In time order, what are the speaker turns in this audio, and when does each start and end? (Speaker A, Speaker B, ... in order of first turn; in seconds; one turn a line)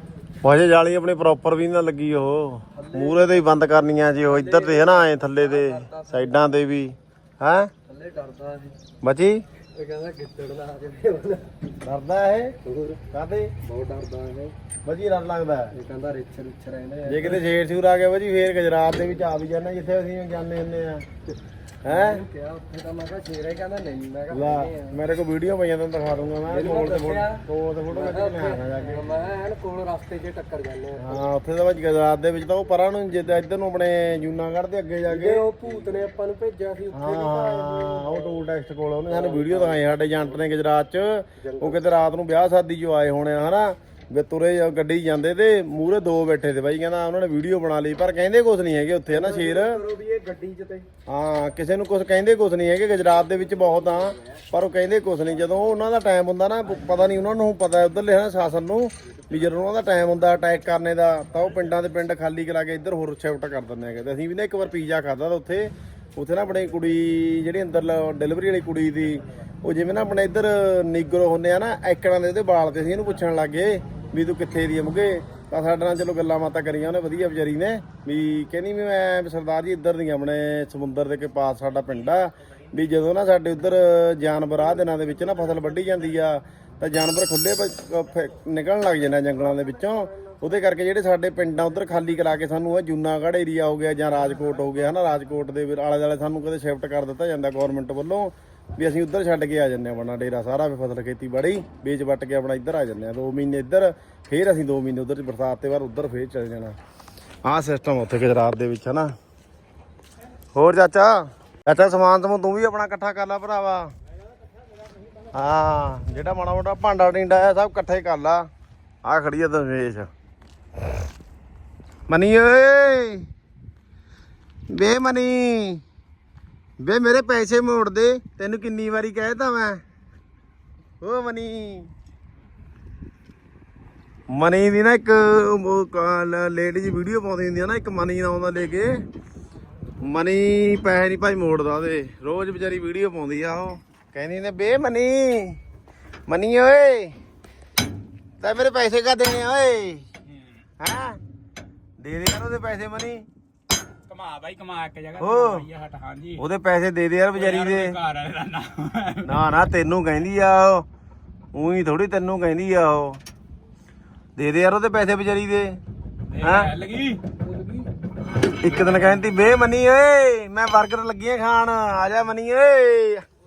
Speaker A: 0.4-7.7
Speaker B: 2.7-3.5
Speaker B: 4.2-6.4
Speaker B: 7.8-8.8
Speaker A: 9.0-9.4
Speaker B: 9.7-11.5
Speaker A: 11.8-12.5
Speaker B: 12.6-13.0
Speaker A: 13.1-13.5
Speaker B: 13.6-14.5
Speaker A: 14.8-15.7
Speaker B: 15.7-17.5
Speaker A: 17.1-21.1
Speaker A: 21.9-22.2
Speaker B: 21.9-25.0
Speaker A: 24.3-29.3
Speaker B: 26.4-31.3
Speaker A: 31.0-35.5
Speaker B: 35.0-38.4
Speaker A: 36.9-49.8
Speaker B: 39.1-39.9
Speaker B: 41.4-41.8
Speaker B: 49.1-50.9
Speaker A: 51.1-106.8
Speaker B: 89.3-90.6
Speaker A: 107.4-109.1
Speaker A: 110.5-113.9
Speaker A: 115.3-118.5
Speaker A: 119.0-120.1
Speaker A: 122.1-123.3
Speaker A: 124.7-125.8
Speaker A: 126.8-129.8
Speaker A: 131.0-131.9
Speaker A: 134.3-139.0
Speaker A: 140.0-145.6
Speaker A: 146.3-147.1
Speaker A: 148.4-150.1
Speaker C: 150.3-150.6
Speaker A: 150.8-151.2
Speaker A: 152.0-153.2
Speaker C: 154.1-156.4
Speaker A: 155.2-155.7
Speaker A: 156.4-157.9
Speaker C: 157.3-159.5
Speaker A: 159.2-160.8
Speaker A: 161.5-163.2
Speaker A: 164.4-165.8
Speaker C: 166.3-167.9
Speaker A: 166.4-166.7
Speaker A: 168.6-173.2
Speaker C: 168.6-169.3